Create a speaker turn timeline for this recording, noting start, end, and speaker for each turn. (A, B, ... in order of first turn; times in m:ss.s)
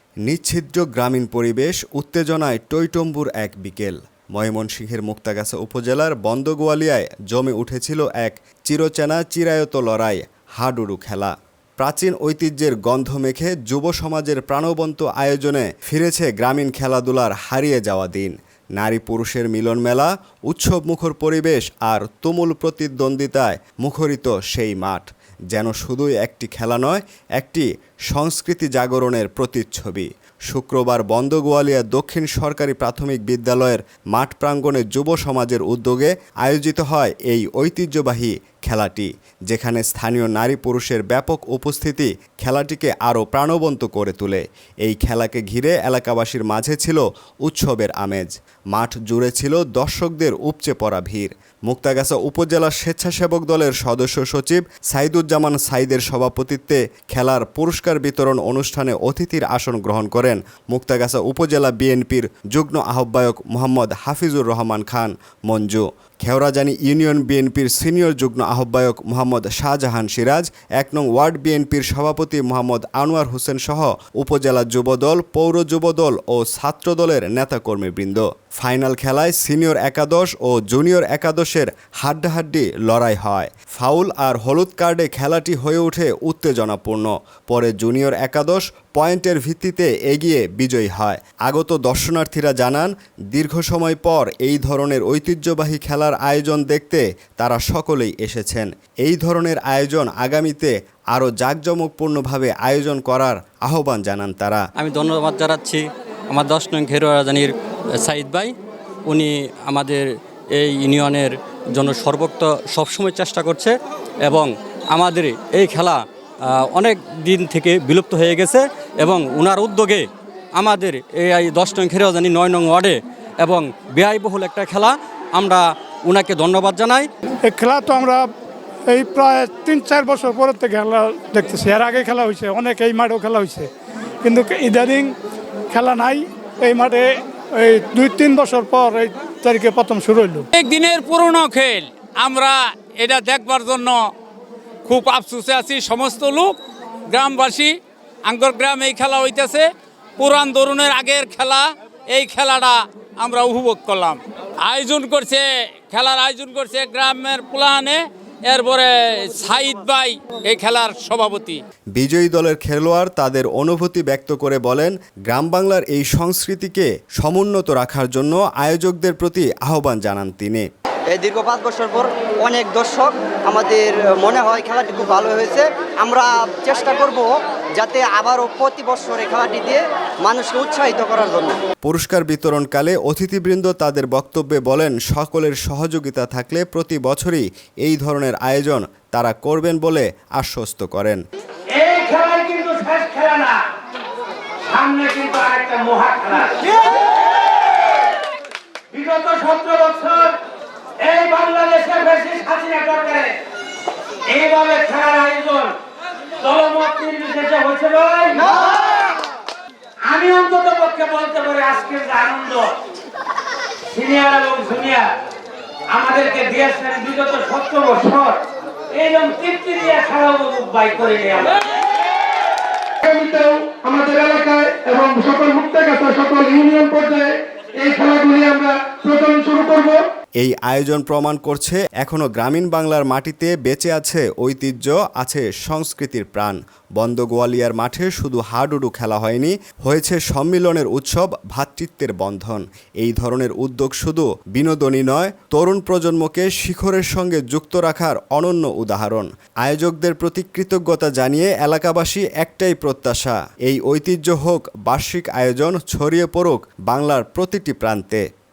0:00.2-1:44.6 A
1:44.8-1:48.5 B
1:49.1-1:50.0 B
1:50.5-1:53.7 B
1:54.2-2:07.1 B
2:07.4-2:08.2 C
2:08.9-2:13.7 C
2:14.2-2:15.1 C
2:15.7-2:20.4 C
2:20.5-2:24.1 D
2:24.8-2:26.6 D
2:27.1-2:29.6 D
2:30.2-2:41.6 D
2:41.9-2:50.7 A
2:51.1-3:01.6 E
3:01.8-3:11.2 A
3:11.8-3:13.6 F
3:14.6-3:17.0 F
3:18.9-3:20.4 F
3:21.0-3:23.4 F
3:24.3-3:25.7 F
3:26.4-3:28.9 F
3:30.1-3:32.7 F
3:33.9-3:35.1 F
3:36.0-3:38.4 F
3:39.0-3:41.6 F
3:43.0-3:50.0 G
3:50.4-4:18.2 A